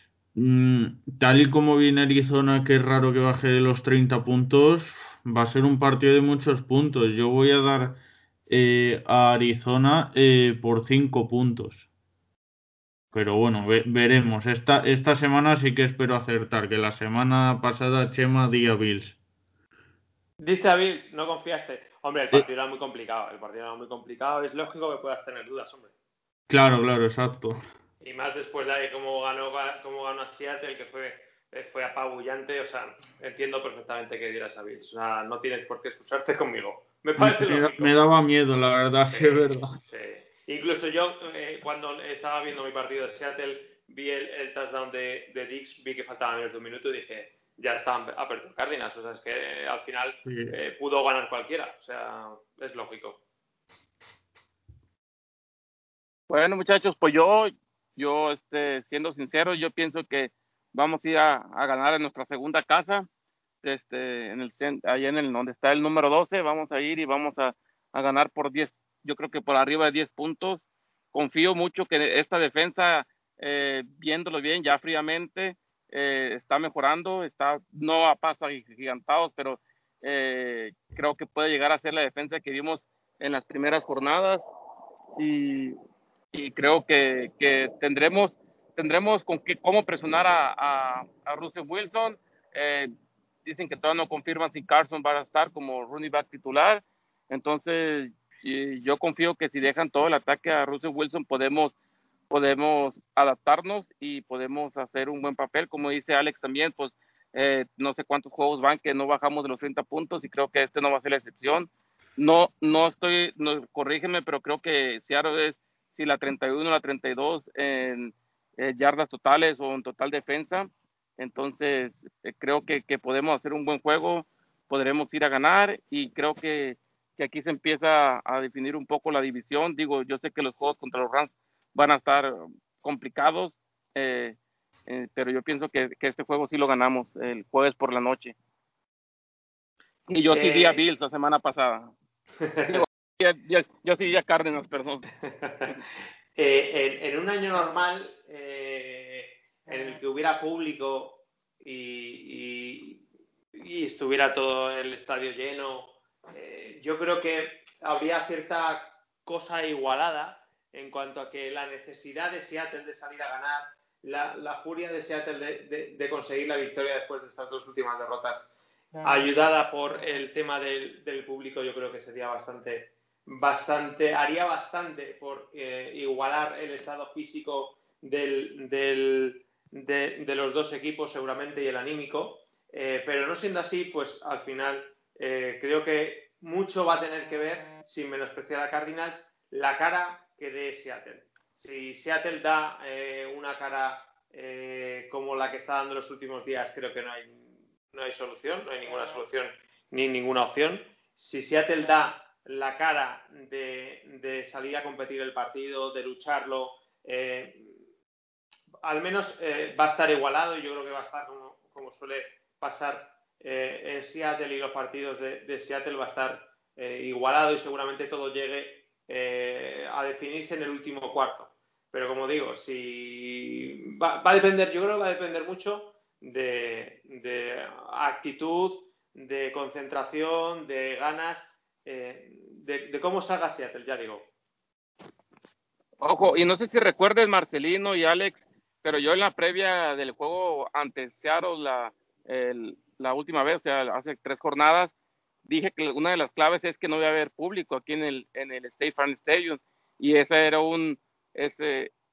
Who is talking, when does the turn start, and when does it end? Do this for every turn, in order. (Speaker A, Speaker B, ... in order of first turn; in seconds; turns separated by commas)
Speaker A: 0.3-11.9, Speaker A: 13.1-19.2, Speaker B: 20.4-25.9, Speaker A: 26.5-27.6, Speaker B: 28.0-38.0, Speaker A: 37.2-39.7, Speaker B: 39.1-53.2, Speaker A: 50.3-50.5, Speaker C: 56.3-63.1, Speaker C: 63.6-84.4, Speaker C: 85.2-85.8, Speaker C: 86.3-92.9, Speaker C: 93.5-101.8, Speaker C: 102.3-138.3, Speaker C: 140.1-141.9, Speaker B: 140.3-140.8, Speaker B: 142.4-142.8, Speaker C: 142.7-145.1, Speaker B: 145.4-145.7, Speaker B: 146.3-153.0, Speaker B: 153.6-168.5, Speaker B: 169.0-207.8, Speaker B: 208.8-234.3, Speaker C: 236.0-244.9, Speaker C: 245.4-251.9